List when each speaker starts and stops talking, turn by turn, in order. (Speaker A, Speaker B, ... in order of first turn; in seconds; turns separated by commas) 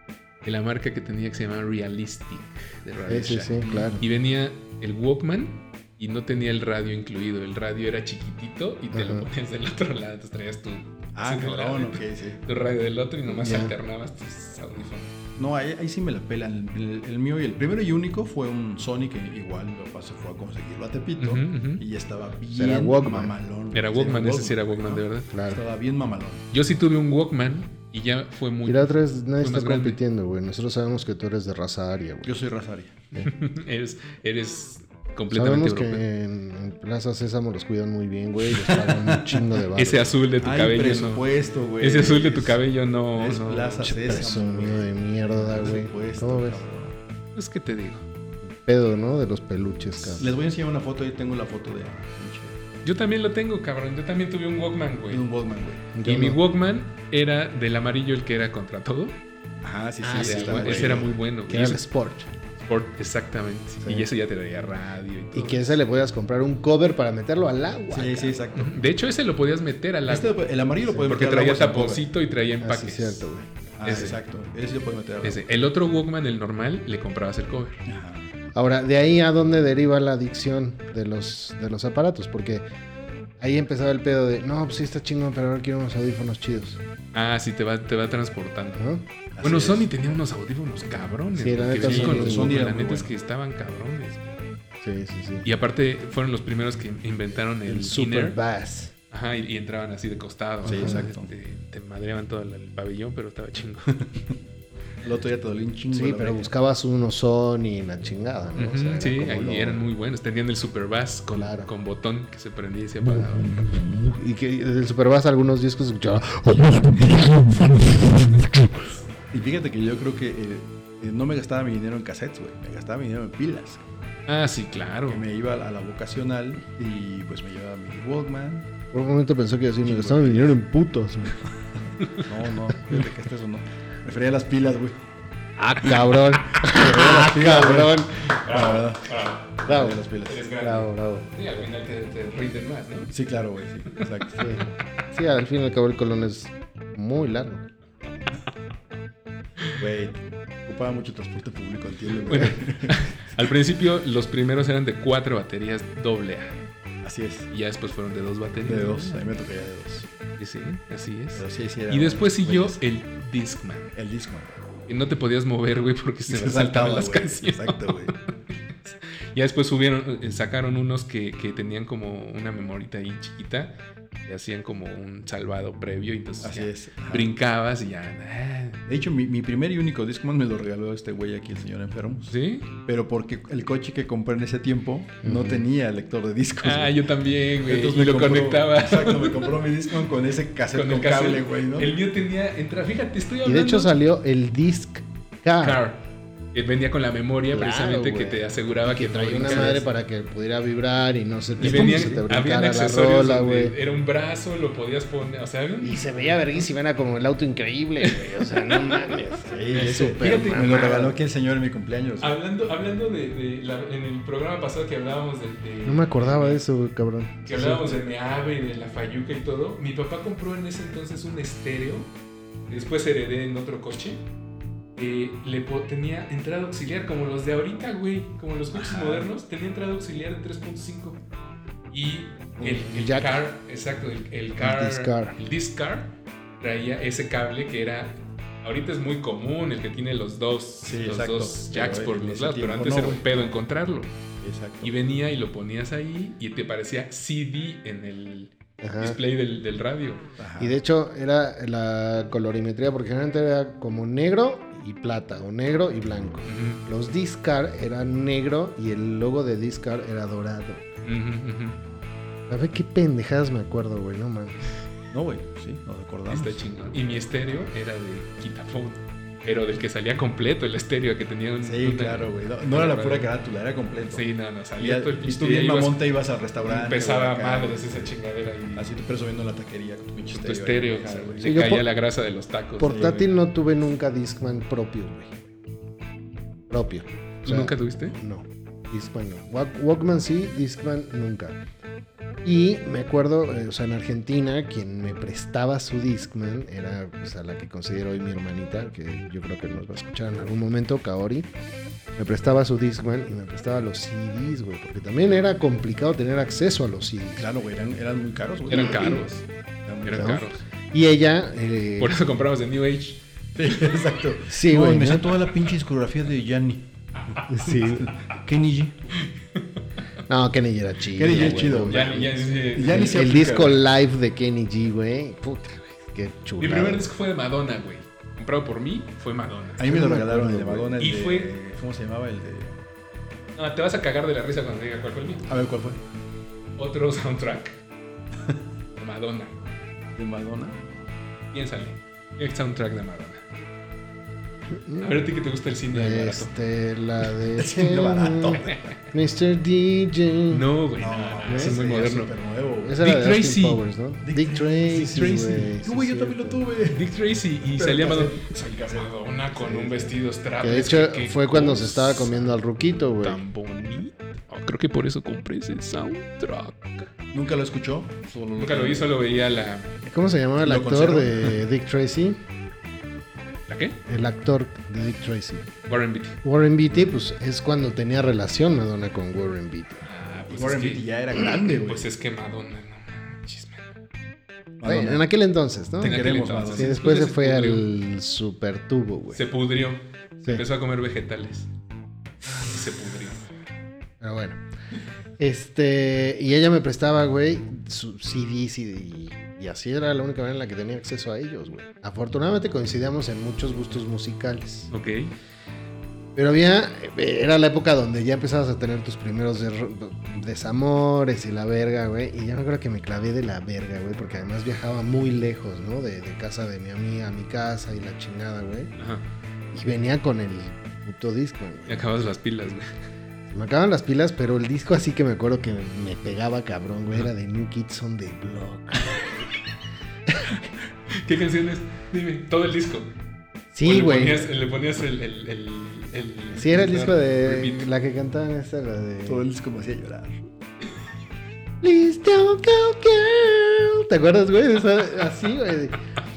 Speaker A: 0.4-15.1, Speaker B: 3.0-4.0, Speaker C: 3.6-4.0, Speaker B: 8.9-9.3, Speaker C: 11.1-12.4, Speaker B: 13.3-13.7, Speaker C: 15.4-26.5, Speaker A: 21.2-21.8, Speaker B: 22.5-23.3, Speaker A: 23.7-25.3, Speaker B: 25.3-25.6, Speaker A: 26.5-30.0, Speaker B: 28.6-32.4, Speaker C: 32.2-33.0, Speaker A: 33.2-36.0, Speaker B: 35.3-40.1, Speaker C: 38.6-39.4, Speaker A: 39.7-41.3, Speaker C: 40.4-42.6, Speaker A: 41.8-43.9, Speaker C: 43.1-47.0, Speaker B: 43.8-46.6, Speaker A: 47.3-48.1, Speaker B: 48.6-50.3, Speaker C: 50.2-52.6, Speaker A: 52.8-55.2, Speaker C: 55.1-55.9, Speaker B: 55.9-56.4, Speaker A: 56.0-59.2, Speaker C: 59.6-61.1, Speaker B: 60.0-62.3, Speaker A: 60.2-61.8, Speaker A: 62.6-65.8, Speaker B: 63.8-64.1, Speaker B: 65.3-68.4, Speaker C: 67.9-68.8, Speaker A: 68.5-73.3, Speaker C: 70.1-72.1, Speaker B: 72.6-73.5, Speaker C: 73.8-75.4, Speaker A: 73.8-74.2, Speaker A: 75.2-77.8, Speaker C: 77.9-78.2, Speaker B: 78.5-82.6, Speaker B: 83.4-86.8, Speaker A: 87.1-88.9, Speaker B: 88.8-89.0, Speaker C: 89.3-89.9, Speaker A: 89.4-94.3, Speaker B: 91.4-92.5, Speaker C: 91.8-93.1, Speaker B: 94.8-95.5, Speaker A: 95.4-98.4, Speaker B: 97.6-98.9, Speaker A: 99.1-104.1, Speaker B: 100.6-101.0, Speaker C: 100.6-101.3, Speaker C: 104.0-104.3, Speaker C: 105.0-106.5, Speaker B: 105.9-109.8, Speaker A: 108.6-113.6, Speaker B: 111.3-111.7, Speaker B: 113.0-119.0, Speaker C: 119.3-123.8, Speaker A: 124.3-125.2, Speaker C: 125.1-128.7, Speaker B: 128.9-131.4, Speaker C: 129.8-130.6, Speaker C: 132.1-135.0, Speaker B: 135.6-138.8, Speaker C: 136.5-140.5, Speaker A: 138.2-139.6, Speaker B: 139.7-140.0, Speaker A: 140.2-143.1, Speaker B: 140.6-141.3, Speaker C: 143.1-144.6, Speaker A: 143.9-144.7, Speaker B: 144.4-147.7, Speaker C: 149.8-153.4, Speaker A: 152.3-156.6, Speaker C: 157.0-157.5, Speaker A: 157.5-159.3, Speaker C: 158.6-160.1, Speaker A: 160.4-163.9, Speaker C: 161.3-162.8, Speaker C: 163.9-164.6, Speaker A: 164.9-178.8, Speaker C: 166.3-168.1, Speaker C: 176.4-177.3, Speaker C: 178.9-182.3, Speaker A: 182.3-182.7, Speaker C: 182.8-187.0, Speaker B: 185.2-185.6, Speaker A: 186.6-189.6, Speaker C: 187.6-191.9, Speaker A: 190.7-193.9, Speaker B: 193.4-195.8, Speaker A: 195.6-196.0, Speaker A: 196.5-199.9, Speaker B: 197.5-203.7, Speaker C: 201.6-202.2, Speaker A: 201.6-206.6, Speaker B: 205.8-211.2, Speaker A: 208.0-209.2, Speaker C: 209.4-212.4, Speaker A: 209.7-211.1, Speaker A: 212.2-216.6, Speaker B: 215.8-217.9, Speaker A: 217.4-222.1, Speaker A: 222.7-224.2, Speaker A: 224.9-231.2, Speaker C: 228.7-229.2, Speaker A: 231.9-244.2, Speaker B: 232.6-233.4, Speaker B: 234.6-235.3, Speaker C: 240.8-243.5, Speaker C: 244.4-244.9, Speaker A: 244.8-250.3, Speaker B: 248.8-249.2, Speaker C: 250.4-250.8, Speaker B: 250.6-260.8, Speaker A: 256.4-256.8, Speaker A: 261.0-261.8, Speaker B: 262.5-264.6, Speaker C: 265.1-266.6, Speaker A: 266.3-273.3, Speaker C: 271.6-274.3, Speaker A: 274.1-276.0, Speaker C: 274.8-278.1, Speaker A: 276.6-278.9, Speaker C: 278.7-281.6, Speaker A: 280.3-283.1, Speaker B: 281.4-281.8, Speaker B: 282.8-285.4, Speaker C: 282.9-283.3, Speaker B: 286.7-291.6, Speaker A: 287.4-288.2, Speaker B: 292.4-301.5, Speaker B: 302.1-307.5, Speaker C: 307.4-309.2, Speaker A: 308.7-309.4, Speaker B: 308.7-309.2, Speaker C: 309.8-310.4, Speaker A: 310.0-310.6, Speaker B: 310.1-312.2, Speaker A: 312.0-313.2, Speaker C: 313.6-319.1, Speaker B: 314.5-315.3, Speaker B: 317.5-318.1, Speaker A: 319.2-320.0, Speaker B: 320.3-322.3, Speaker C: 321.1-323.8, Speaker A: 321.7-323.7, Speaker B: 322.8-327.1, Speaker A: 326.6-329.8, Speaker C: 329.8-332.8, Speaker B: 329.8-331.0, Speaker A: 331.0-331.5, Speaker A: 333.6-335.5, Speaker C: 335.5-336.0, Speaker A: 336.8-337.8, Speaker A: 338.9-339.6, Speaker C: 340.1-340.8, Speaker A: 341.5-343.4, Speaker B: 344.7-345.2, Speaker A: 345.0-346.5, Speaker B: 345.9-350.7, Speaker C: 347.5-348.9, Speaker A: 348.6-348.9, Speaker A: 350.5-352.3, Speaker C: 351.0-353.0, Speaker B: 351.5-351.8, Speaker B: 352.8-356.6, Speaker A: 353.0-353.8, Speaker C: 354.2-357.1, Speaker A: 354.9-355.7, Speaker A: 356.9-362.5, Speaker C: 357.6-360.1, Speaker B: 360.6-363.4, Speaker A: 363.2-367.1, Speaker C: 367.3-369.1, Speaker A: 368.6-369.9, Speaker B: 370.0-372.4, Speaker C: 370.6-371.6, Speaker A: 373.7-374.0, Speaker B: 374.1-375.7, Speaker A: 375.9-376.4, Speaker B: 376.4-380.0, Speaker A: 380.0-381.1, Speaker C: 380.5-382.1, Speaker A: 381.7-383.9, Speaker C: 384.8-385.3, Speaker B: 384.8-389.4, Speaker C: 386.0-387.8, Speaker A: 386.0-387.8, Speaker A: 389.3-391.7, Speaker A: 392.5-393.4, Speaker B: 394.2-394.6, Speaker B: 395.4-404.9, Speaker A: 404.9-405.3, Speaker B: 406.3-418.9, Speaker A: 419.0-419.2, Speaker B: 419.7-422.1, Speaker A: 421.9-422.9, Speaker B: 423.5-429.3, Speaker A: 431.1-433.1, Speaker B: 433.7-434.5, Speaker A: 433.8-437.9, Speaker B: 436.5-439.4, Speaker C: 439.2-440.4, Speaker B: 441.8-446.0